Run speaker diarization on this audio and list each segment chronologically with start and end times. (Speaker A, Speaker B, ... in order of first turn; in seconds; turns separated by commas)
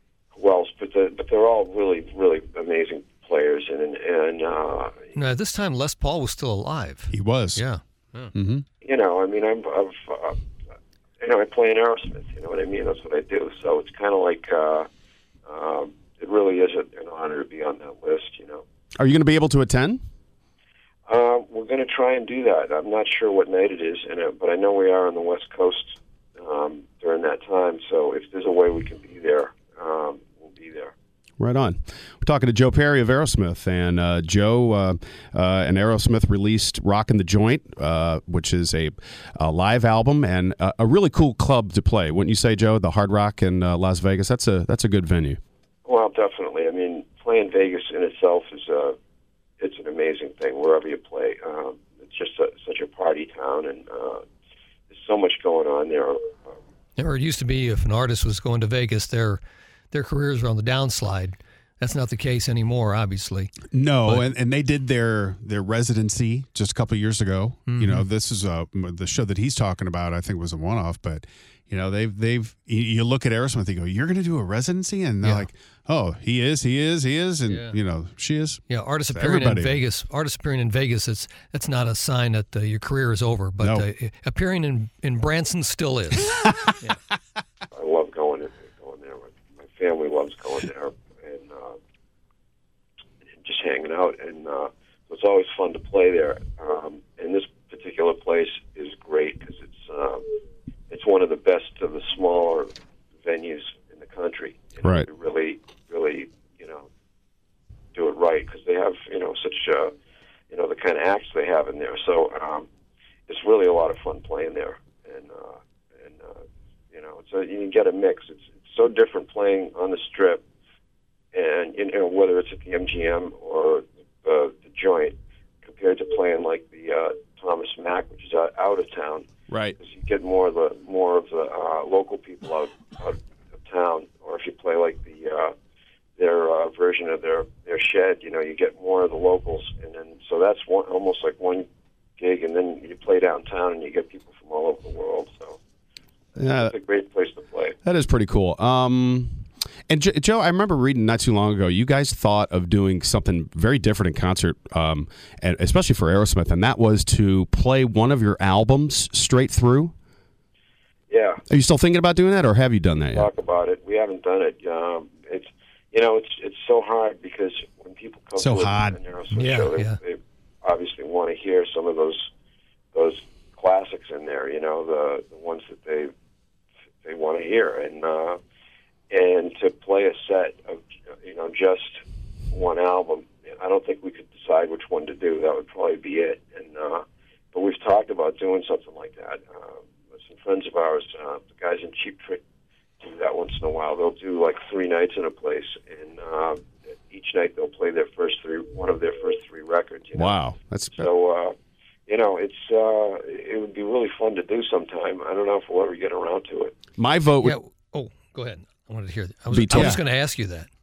Speaker A: 0.3-5.1, Speaker B: 5.2-8.3, Speaker C: 7.1-7.6, Speaker C: 8.3-8.7, Speaker A: 8.8-10.4, Speaker A: 11.2-14.9, Speaker A: 15.5-18.6, Speaker D: 19.0-20.0, Speaker A: 21.1-30.9, Speaker D: 31.4-45.4, Speaker A: 45.9-49.0, Speaker A: 49.6-54.3, Speaker A: 54.9-56.6, Speaker B: 57.0-59.4, Speaker B: 59.9-64.3, Speaker C: 63.6-79.8, Speaker B: 67.7-68.1, Speaker B: 75.2-75.5, Speaker B: 77.5-77.8, Speaker B: 78.7-87.0, Speaker C: 83.6-83.9, Speaker A: 87.7-91.8, Speaker A: 93.4-100.4, Speaker A: 100.9-102.7, Speaker A: 103.2-106.9, Speaker A: 107.9-109.9, Speaker A: 110.5-112.7, Speaker A: 113.3-120.4, Speaker A: 121.3-129.3, Speaker D: 129.5-129.8, Speaker A: 129.8-135.5, Speaker A: 136.2-141.7, Speaker A: 142.2-145.6, Speaker D: 146.4-146.7, Speaker A: 146.5-147.8, Speaker D: 147.8-159.9, Speaker A: 161.1-161.4, Speaker D: 161.5-163.3, Speaker A: 163.1-172.3, Speaker C: 168.4-169.0, Speaker B: 169.3-170.0, Speaker A: 172.9-176.1, Speaker A: 177.0-178.4, Speaker A: 179.1-192.4, Speaker A: 193.0-200.4, Speaker D: 200.2-201.1, Speaker A: 200.9-201.6, Speaker A: 202.1-206.8, Speaker D: 207.0-207.6, Speaker B: 207.4-210.7, Speaker D: 209.5-209.9, Speaker C: 209.7-210.0